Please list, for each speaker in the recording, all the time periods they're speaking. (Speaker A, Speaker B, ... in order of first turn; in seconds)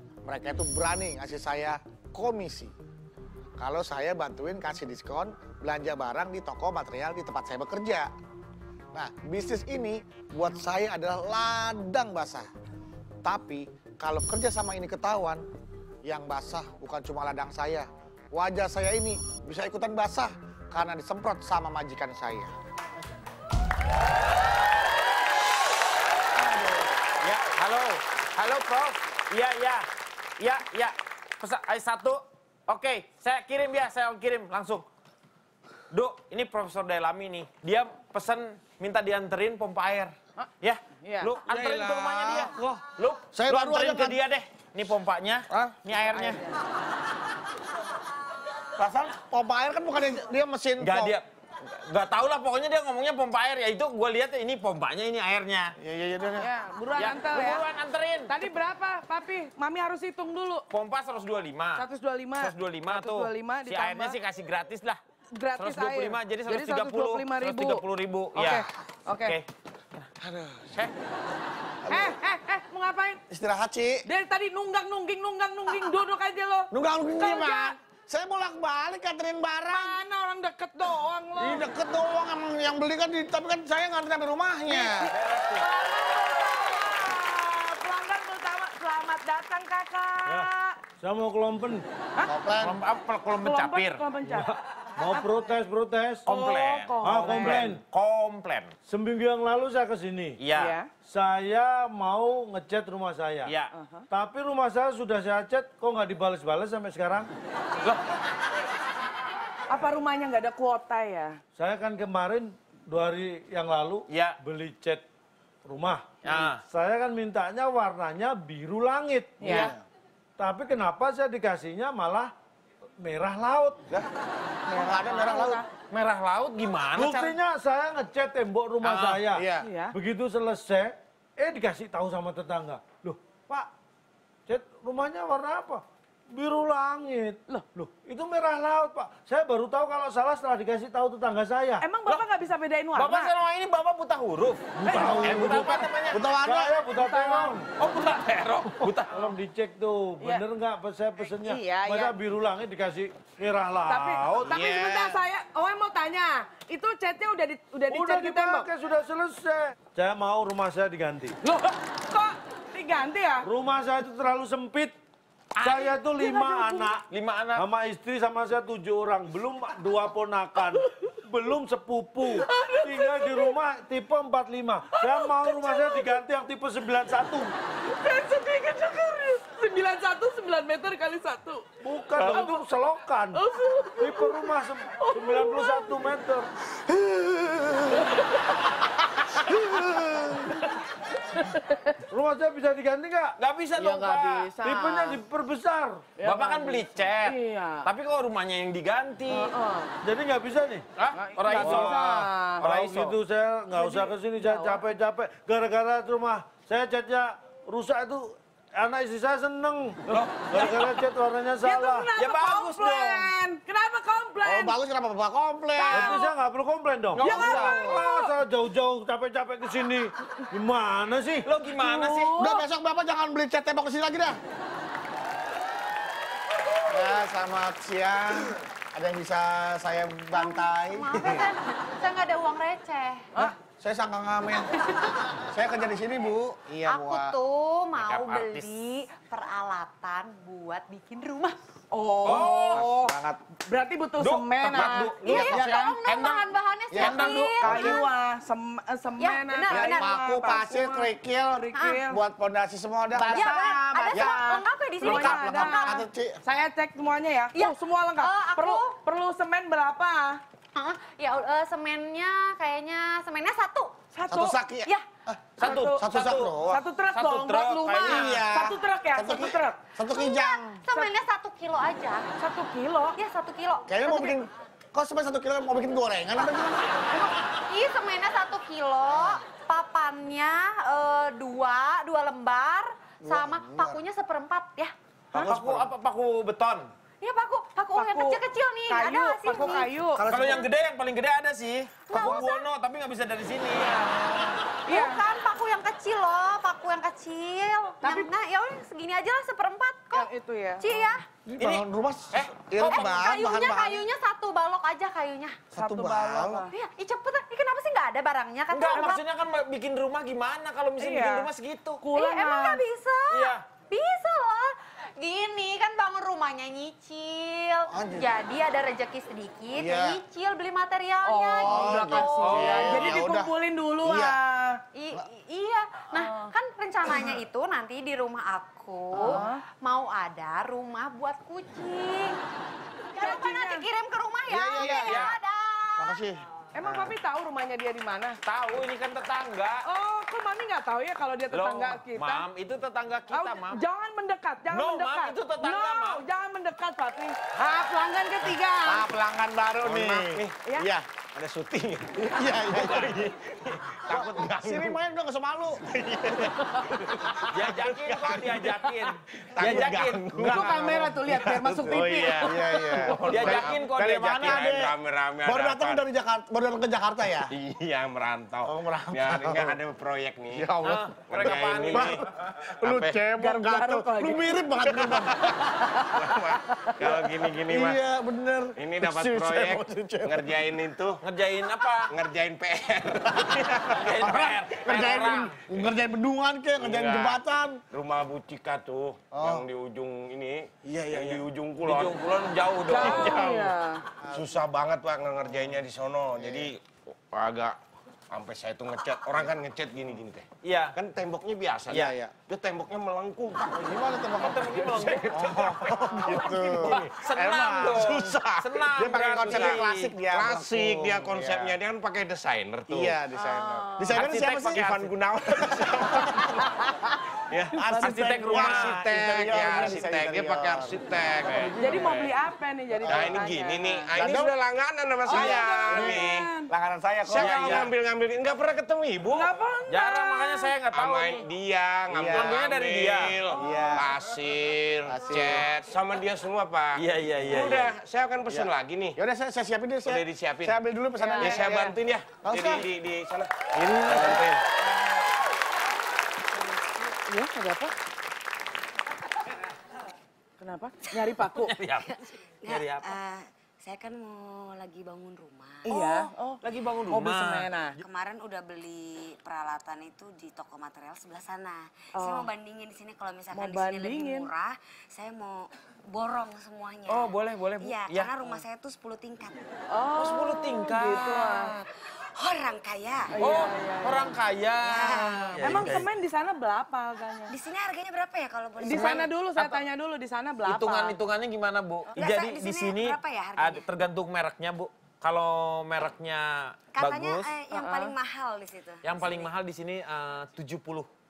Speaker A: 0.2-2.7, 3.6-8.1, 8.9-12.5, 13.2-15.4, 16.0-22.5, 26.4-26.9, 41.5-42.8, 43.3-44.2, 45.5-46.3, 48.8-51.2, 55.8-56.5, 70.2-70.8, 71.9-72.2, 73.3-74.1, 76.7-80.0, 81.4-85.1, 92.2-92.8, 119.5-119.8, 124.7-125.6, 128.8-129.7, 146.1-146.9, 214.4-216.2, 217.2-218.0, 222.4-224.4, 226.9-231.5, 233.4-237.4, 242.2-243.4, 244.7-248.1, 249.7-256.4, 264.3-266.8, 268.0-270.9, 273.9-277.1, 283.2-284.0, 285.3-285.9, 290.2-290.7, 294.0-294.6, 301.4-304.1, 305.7-306.6, 317.9-318.3, 319.8-320.2, 321.6-324.4, 329.1-329.4, 334.5-335.4, 336.0-337.1, 348.9-351.1, 352.2-353.3, 354.1-355.8, 359.6-367.5, 368.6-369.8, 370.5-372.3, 372.8-375.7, 377.0-380.6, 383.5-387.8, 389.3-389.7, 390.8-391.4, 396.4-396.7, 401.9-402.3, 403.7-408.1, 408.9-411.8, 412.9-416.7, 417.7-422.3, 423.0-423.5, 424.1-424.5, 425.3-427.9, 432.1-432.6, 433.5-434.1, 435.1-435.7, 438.5-442.9, 444.1-444.4
Speaker B: 27.2-29.9, 30.4-34.9, 35.9-46.4, 50.8-55.7, 57.0-58.4, 60.7-61.9, 62.4-65.0, 65.6-68.7, 85.1-85.7, 92.6-94.0, 96.3-98.7, 100.4-100.8, 103.5-103.7, 114.1-114.4, 116.2-116.6, 125.9-127.4, 142.9-146.3, 147.8-149.3, 165.6-165.9, 167.1-167.6, 193.4-194.5, 196.2-199.5, 201.0-203.2, 210.1-211.0, 212.2-213.3, 217.2-217.8, 221.5-222.4, 242.2-242.8, 244.2-245.7, 247.0-248.0, 265.6-266.6, 267.1-268.5, 285.4-286.9, 290.3-294.2, 301.6-302.9, 308.7-312.0, 313.3-313.6, 322.1-323.2, 334.9-335.4, 338.4-339.8, 341.5-343.8, 344.7-346.2, 357.5-360.7, 363.0-364.6, 370.8-372.2, 381.2-382.1, 384.0-385.6, 391.8-393.6, 400.6-401.0, 401.9-402.2, 404.4-410.2, 417.9-419.0, 427.3-427.9, 429.9-431.4, 432.3-433.4, 436.9-437.9, 451.5-453.1, 455.9-457.7, 467.1-468.6, 470.1-471.7, 473.4-476.1, 478.9-479.8, 480.7-487.6, 489.0-491.1
Speaker C: 40.4-41.4, 46.2-46.4, 56.4-57.7, 58.3-60.7, 61.8-64.2, 65.3-69.4, 71.9-73.2, 74.1-77.8, 79.7-81.7, 84.7-90.8, 93.3-94.5, 96.3-97.7, 100.5-100.9, 103.7-104.1, 109.7-111.4, 119.4-119.7, 124.7-125.7, 129.6-129.9, 141.8-143.3, 144.9-145.9, 146.9-147.6, 151.4-152.2, 153.9-158.7, 161.4-163.5, 166.2-166.9, 172.3-173.6, 174.9-176.2, 177.8-182.6, 183.3-186.1, 187.9-188.6, 191.4-191.8, 193.8-195.2, 196.2-197.9, 199.3-199.9, 201.1-202.7, 203.7-204.8, 211.6-214.8, 215.8-216.3, 217.2-218.4, 221.8-222.7, 241.9-246.0, 247.4-252.2, 255.0-260.4, 264.1-264.6, 265.6-266.1, 266.6-269.9, 272.4-273.2, 287.9-290.3, 294.9-295.2, 298.0-298.3, 300.1-300.9, 305.7-306.7, 311.0-311.5, 312.0-312.8, 321.2-324.8, 326.2-326.5, 329.1-329.6, 333.2-333.9, 336.8-338.4, 339.9-342.5, 343.3-349.1, 360.5-363.1, 373.3-375.2, 375.8-376.3, 376.8-377.1, 392.9-394.0, 413.4-414.1, 421.8-424.1, 425.2-426.7, 429.3-430.8, 433.8-434.0, 441.2-441.8, 447.2-447.9, 450.6-451.8, 455.9-458.0, 462.1-462.5, 463.5-464.5, 469.9-471.8, 473.3-474.4, 475.1-477.6, 478.8-481.2, 487.7-488.2
Speaker D: 90.3-91.8, 94.3-96.3, 97.0-97.8, 98.9-100.4, 101.0-103.5, 104.1-107.3, 111.5-115.0, 115.7-119.7, 120.4-122.3, 123.0-123.9, 127.0-133.7, 134.5-141.9, 144.8-147.8, 148.8-154.6, 157.9-161.4, 163.4-165.0, 165.6-177.5, 181.8-183.4, 184.0-186.5, 187.1-187.6, 189.4-190.6, 192.1-193.4, 194.6-196.1, 200.0-200.9, 201.5-212.1, 215.9-221.5
Speaker E: 230.3-233.3, 236.8-241.6, 245.0-247.8, 249.2-250.1, 251.7-252.0, 253.2-256.1, 257.5-259.0, 260.8-264.0, 270.0-272.3, 273.2-274.4, 277.1-284.9, 287.2-289.9, 292.1-292.7, 294.9-301.2, 302.9-305.7, 306.7-309.2, 312.1-322.6, 324.9-332.4, 333.1-336.2
Speaker F: 238.0-238.7, 349.8-350.6, 351.3-355.0, 355.9-356.7, 357.8-358.3, 359.5-362.6, 363.1-363.8, 364.5-366.1, 367.5-370.7, 371.3-372.2, 372.8-373.2, 376.1-378.0, 378.8-381.2, 382.1-383.8, 386.8-387.4, 387.9-390.7, 391.2-392.2, 393.0-393.6, 394.3-397.8, 398.3-403.9, 405.1-408.6, 409.4-413.2, 414.1-416.4, 417.5-422.1, 423.1-426.5, 427.3-429.5, 430.9-439.2, 440.1-440.8, 441.5-444.6
Speaker G: 452.6-455.9, 458.0-469.6, 472.4-473.3, 474.8-476.0, 477.5-479.3, 482.1-483.9, 486.9-489.5